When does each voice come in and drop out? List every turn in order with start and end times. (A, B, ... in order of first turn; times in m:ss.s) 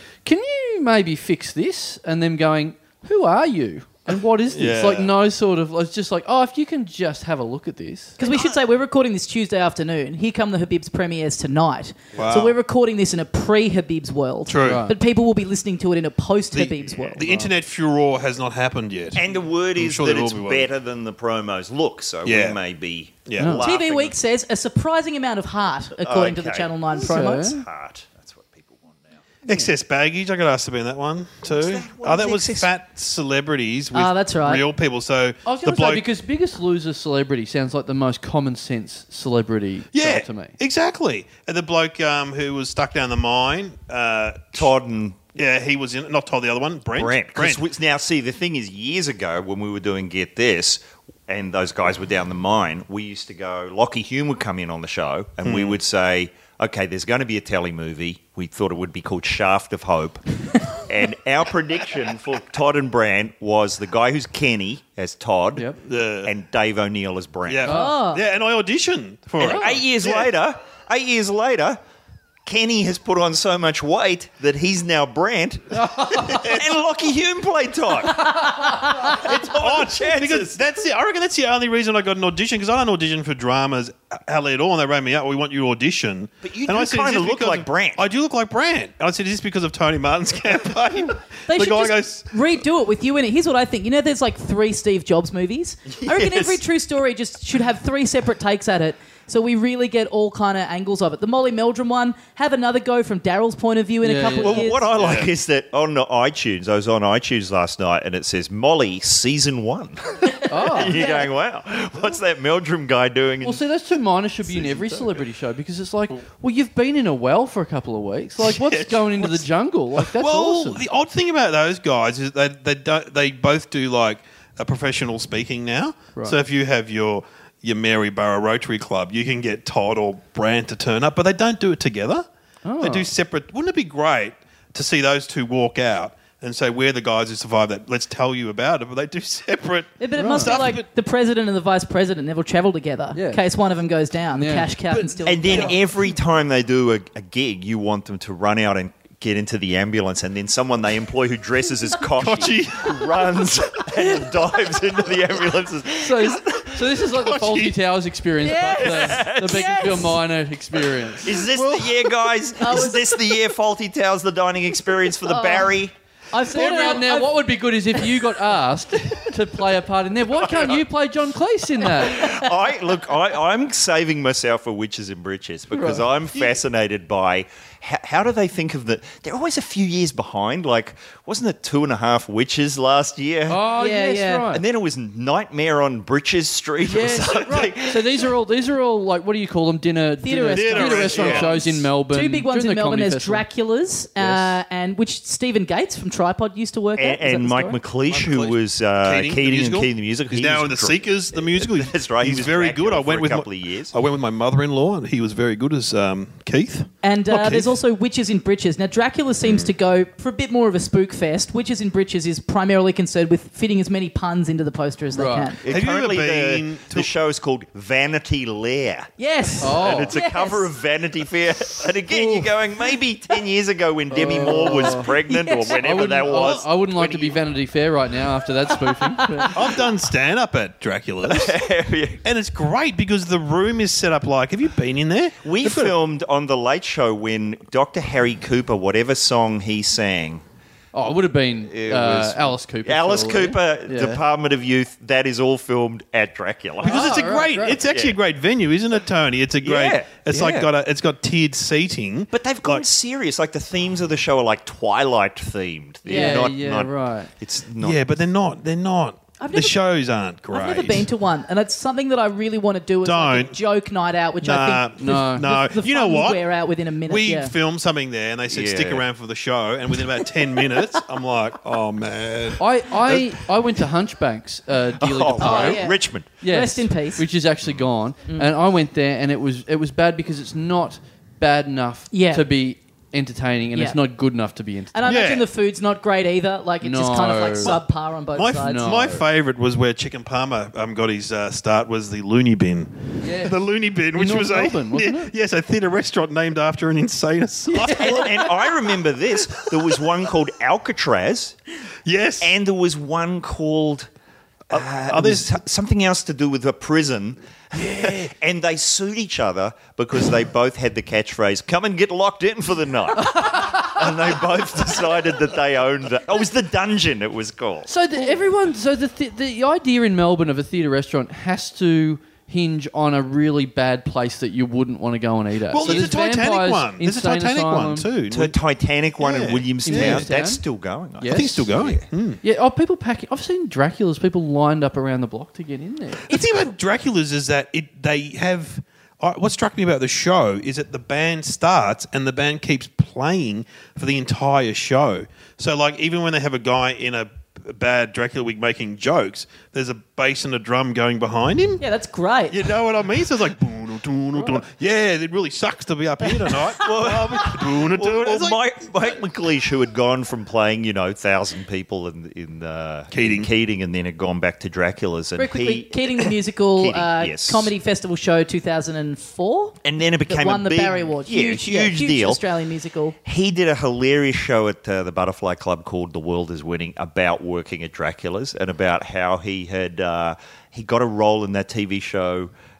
0:00.2-0:08.2 A
0:04.5-0:05.1 B
0:08.2-0:17.2 C
0:12.1-0:12.6 B
0:14.5-0:14.8 B
0:14.6-0:14.9 A
0:16.5-0:20.7 B
0:17.2-0:17.5 A
0:19.1-0:24.1 D
0:22.2-0:22.6 B
0:23.3-0:23.6 B
0:23.4-0:23.6 A
0:23.6-0:27.6 C
0:26.0-0:29.2 D
0:26.9-0:27.6 A
0:29.5-0:36.0 B
0:31.4-0:32.7 D
0:33.9-0:34.6 C
0:35.4-0:40.5 A
0:39.9-0:44.7 B
0:44.5-0:45.2 D
0:45.3-0:47.6 B
0:46.9-1:05.7 D
0:55.4-0:55.8 B
1:05.8-1:06.3 B
1:06.2-1:07.8 D
1:07.5-1:10.3 B
1:07.7-1:08.0 A
1:07.7-1:08.2 C
1:09.4-1:09.7 A
1:09.4-1:11.8 D
1:12.4-1:20.6 D
1:15.7-1:16.4 A
1:16.3-1:16.6 B
1:19.1-1:32.3 B
1:26.4-1:28.0 D
1:31.5-1:44.8 C
1:35.9-1:36.6 D
1:44.0-1:44.7 A
1:44.3-1:53.6 D
1:44.9-1:45.3 B
1:50.3-1:51.3 C
1:50.5-1:51.0 A
1:53.4-2:00.8 A
1:58.4-1:59.4 B
2:00.0-2:12.2 B
2:12.6-2:13.1 A
2:12.8-2:20.8 B
2:20.0-2:25.8 C
2:20.2-2:20.6 A
2:23.1-2:23.4 A
2:24.4-2:24.7 A
2:24.9-2:25.8 B
2:25.2-2:37.1 D
2:32.1-2:33.3 B
2:36.0-2:41.4 A
2:37.1-2:37.8 B
2:38.4-2:40.2 C
2:38.8-2:40.0 D
2:41.2-2:45.9 D
2:41.4-2:42.1 B
2:42.6-2:43.3 C
2:45.2-2:45.7 C
2:46.3-2:48.1 C
2:46.5-2:52.3 A
2:46.5-2:47.0 B
2:50.3-2:50.8 D
2:51.8-3:03.6 D
2:55.7-2:56.0 A
3:03.5-3:04.6 A
3:03.8-3:04.4 C
3:04.5-3:08.3 D
3:06.8-3:13.4 A
3:10.2-3:17.8 C
3:10.5-3:11.5 B
3:14.2-3:14.4 A
3:17.0-3:23.9 D
3:18.1-3:27.8 B
3:27.0-3:35.6 C
3:29.4-3:29.7 D
3:35.1-3:35.5 A
3:35.6-3:47.4 D
3:35.7-3:37.1 B
3:39.2-3:40.7 C
3:39.6-3:40.1 A
3:42.1-3:42.5 A
3:44.1-3:45.1 A
3:44.3-3:45.8 C
3:45.8-3:49.5 A
3:46.3-3:46.6 B
3:49.5-3:51.6 B
3:51.2-3:52.2 D
3:52.2-3:56.0 B
3:55.4-4:00.4 D
4:00.9-4:04.2 A
4:01.7-4:07.3 D
4:06.8-4:07.8 A
4:06.8-4:12.8 B
4:07.8-4:08.2 D
4:09.6-4:10.7 D
4:12.3-4:18.0 D
4:16.0-4:16.4 C
4:16.1-4:17.3 A
4:17.8-4:21.1 B
4:19.4-4:19.8 C
4:20.5-4:27.5 C
4:23.0-4:23.6 B
4:24.4-4:26.4 B
4:25.0-4:25.5 A
4:27.0-4:33.3 B
4:28.5-4:29.0 D
4:32.6-4:35.8 A
4:35.0-4:36.3 D
4:35.4-4:37.2 C
4:36.4-4:45.2 A
4:42.1-4:42.4 C
4:43.7-4:44.0 C
4:44.9-4:49.0 C
4:45.0-4:45.5 B
4:46.8-4:47.8 A
4:47.6-4:58.5 B
4:48.6-4:49.2 A
4:53.2-4:53.6 A
4:54.1-4:55.3 A
4:57.9-5:01.6 D
5:02.0-5:02.5 B
5:02.4-5:04.1 D
5:04.7-5:17.9 D
5:04.7-5:05.5 B
5:07.7-5:08.3 B
5:13.3-5:13.9 A
5:17.9-5:28.1 A
5:25.7-5:28.5 B
5:28.3-5:32.0 D
5:29.2-5:30.3 B
5:29.8-5:30.6 A
5:31.2-5:31.7 A
5:31.2-5:32.4 B
5:32.4-5:36.3 A
5:36.3-5:51.8 B
5:51.8-5:52.7 C
5:52.5-5:58.6 B
5:56.8-6:07.7 D
6:03.1-6:03.5 B
6:05.4-6:13.1 C
6:09.8-6:12.4 D
6:13.2-6:22.5 D